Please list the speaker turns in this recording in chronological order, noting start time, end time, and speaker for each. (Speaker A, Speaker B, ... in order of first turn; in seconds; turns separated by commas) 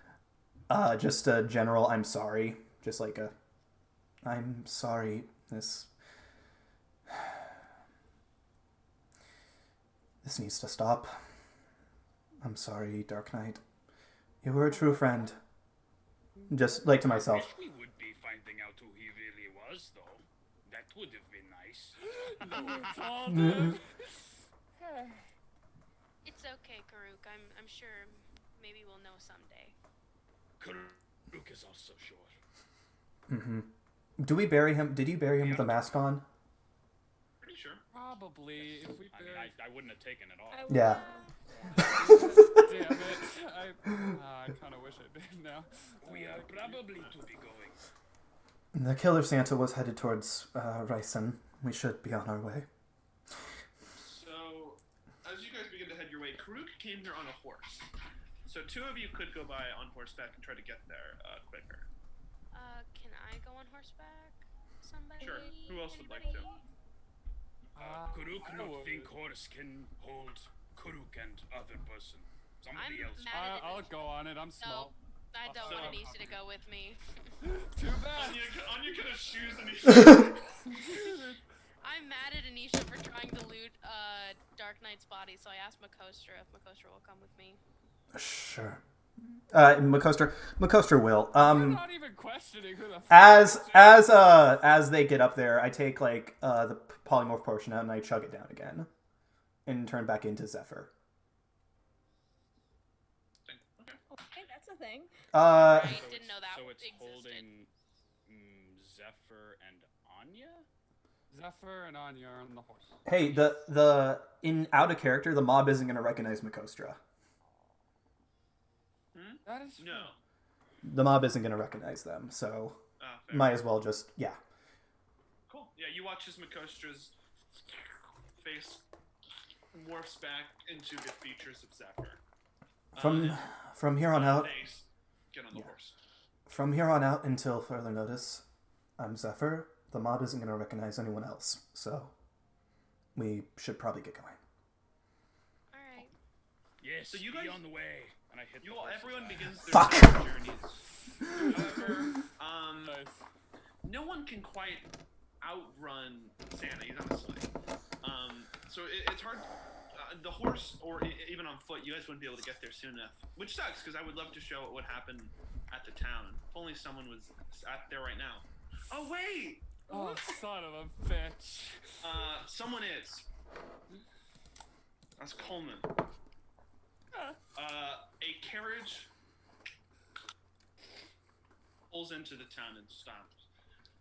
Speaker A: 0.7-3.3, Speaker A: 4.2-5.9, Speaker A: 10.2-11.1, Speaker A: 12.4-13.6, Speaker A: 14.4-15.4, Speaker A: 16.5-17.5, Speaker B: 17.0-22.0, Speaker C: 22.1-25.2, Speaker A: 23.3-23.7, Speaker D: 26.2-29.8, Speaker B: 30.6-32.4, Speaker A: 33.3-33.7, Speaker A: 34.2-36.3, Speaker B: 35.4-36.2, Speaker E: 37.4-37.8, Speaker C: 37.9-39.6, Speaker B: 38.5-40.7, Speaker F: 40.5-42.1, Speaker A: 40.7-41.1, Speaker C: 41.7-46.8, Speaker A: 41.8-42.5, Speaker B: 46.0-47.8, Speaker E: 46.7-47.2, Speaker A: 48.8-52.7, Speaker E: 53.9-57.9, Speaker E: 58.5-61.9, Speaker D: 62.5-65.7, Speaker F: 65.2-66.6, Speaker E: 65.2-66.5, Speaker C: 67.8-69.1, Speaker B: 67.8-73.3, Speaker D: 72.7-77.3, Speaker C: 73.3-76.0, Speaker E: 75.6-76.3, Speaker C: 77.4-78.5, Speaker E: 78.1-80.6, Speaker D: 80.7-81.1, Speaker C: 80.7-81.3, Speaker D: 81.8-87.6, Speaker A: 88.2-88.8, Speaker A: 89.5-91.8, Speaker C: 91.4-94.2, Speaker A: 93.1-98.9, Speaker A: 99.7-100.9, Speaker E: 103.5-104.0, Speaker F: 104.1-105.1, Speaker A: 105.3-106.0, Speaker D: 105.4-107.5, Speaker B: 105.8-107.7, Speaker B: 108.3-110.7, Speaker C: 111.3-113.0, Speaker A: 113.0-117.0, Speaker E: 119.1-120.2, Speaker C: 119.5-120.2, Speaker A: 120.8-122.8, Speaker E: 123.0-123.6, Speaker A: 123.3-124.4, Speaker E: 125.5-127.2, Speaker E: 128.4-128.9, Speaker E: 129.7-132.2, Speaker E: 132.9-133.4, Speaker A: 133.0-134.5, Speaker E: 134.1-136.0, Speaker A: 136.5-138.4, Speaker A: 139.0-142.1, Speaker A: 143.2-144.4, Speaker D: 145.7-146.1, Speaker B: 146.8-149.7, Speaker E: 147.1-147.6, Speaker E: 148.6-150.8, Speaker C: 151.2-151.9, Speaker E: 151.4-153.0, Speaker C: 152.8-153.2, Speaker E: 153.8-154.9, Speaker E: 155.4-170.1, Speaker C: 169.9-172.2, Speaker E: 172.0-173.3, Speaker E: 175.2-175.9, Speaker E: 177.5-179.1, Speaker E: 181.9-183.5